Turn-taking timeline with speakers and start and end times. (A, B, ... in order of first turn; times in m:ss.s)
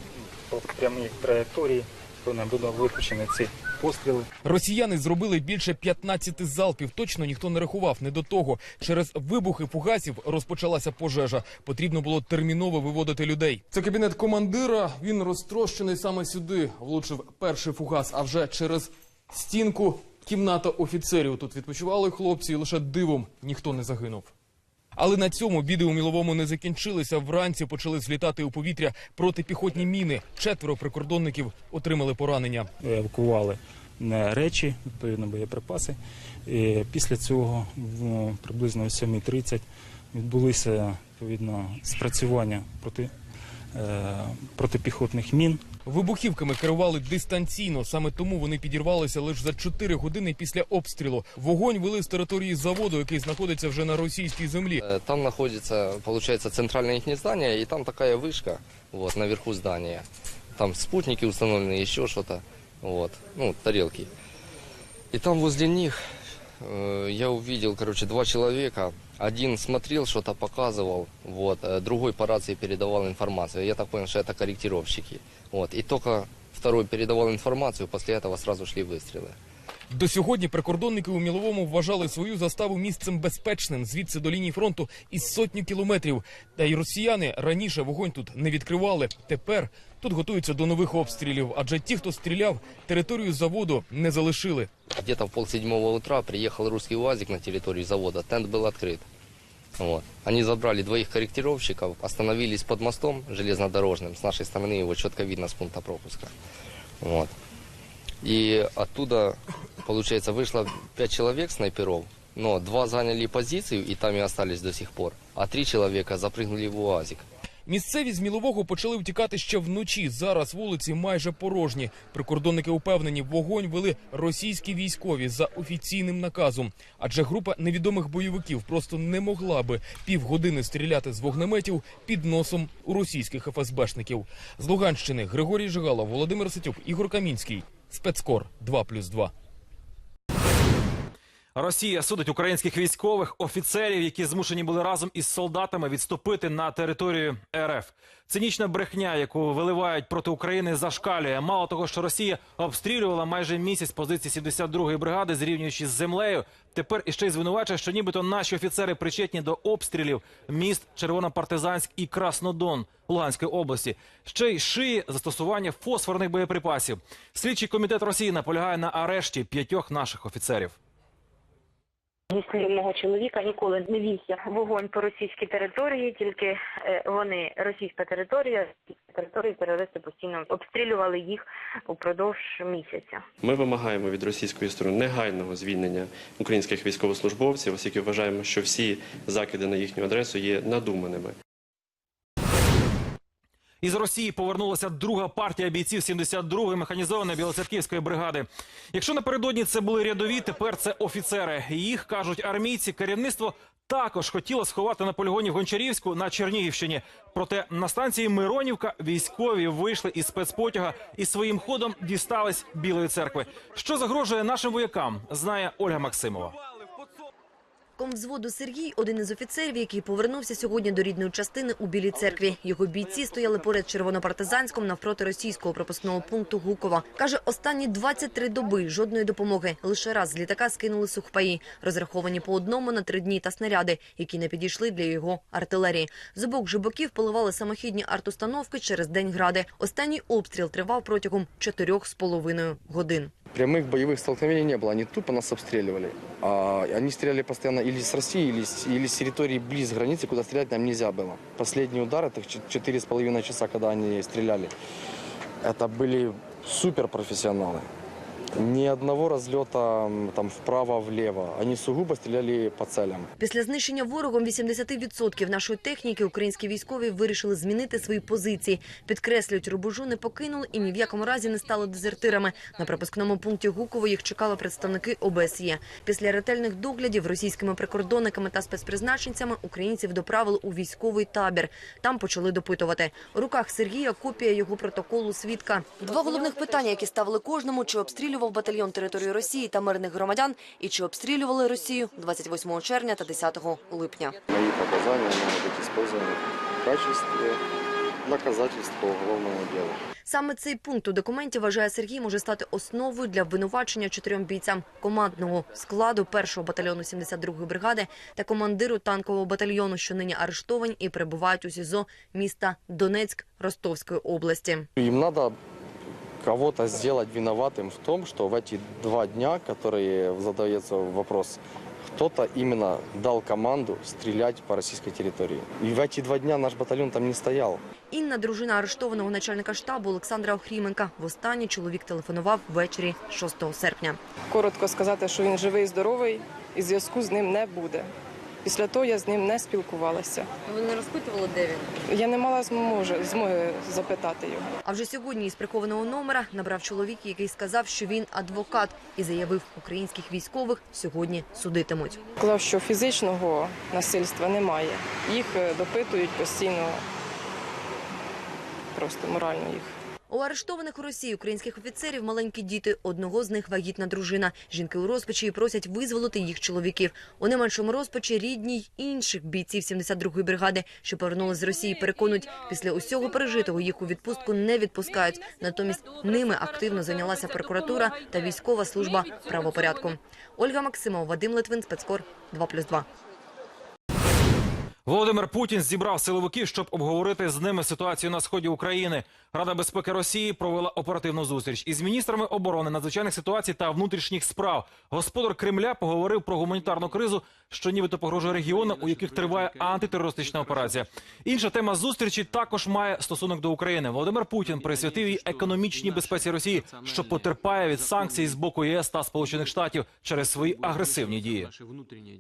0:00.5-0:04.3 A
0:04.4-0:24.3 B
0:25.0-0:32.7 B
0:32.8-0:43.1 A
0:43.7-0:45.6 A
0:45.9-0:54.8 B
0:54.8-1:00.0 C
1:00.6-1:04.1 C
1:05.1-1:19.4 C
1:19.9-1:34.7 B
1:35.0-1:39.1 C
1:39.8-1:46.3 C
1:47.0-1:47.3 C
1:48.2-1:57.3 C
1:57.7-2:19.3 B
2:21.6-2:50.8 D
2:52.3-3:03.2 E
3:03.4-3:11.4 F
3:13.8-3:36.6 D
3:38.0-4:03.3 G
4:03.5-4:14.7 H
4:15.6-4:17.9 H
4:18.6-4:23.3 H
4:23.4-4:54.4 G
4:54.5-4:57.6 H
4:58.2-5:00.0 H
5:00.3-5:14.9 G
5:15.0-5:15.6 H
5:16.4-5:21.6 H
5:22.1-5:27.8 H
5:28.1-5:34.2 G
5:34.5-5:38.1 I
5:38.6-5:40.5 I
5:42.1-5:44.7 I
5:44.8-5:52.2 G
5:52.4-5:57.0 I
5:59.0-5:59.9 I
6:00.3-6:23.1 G
6:25.1-6:51.7 D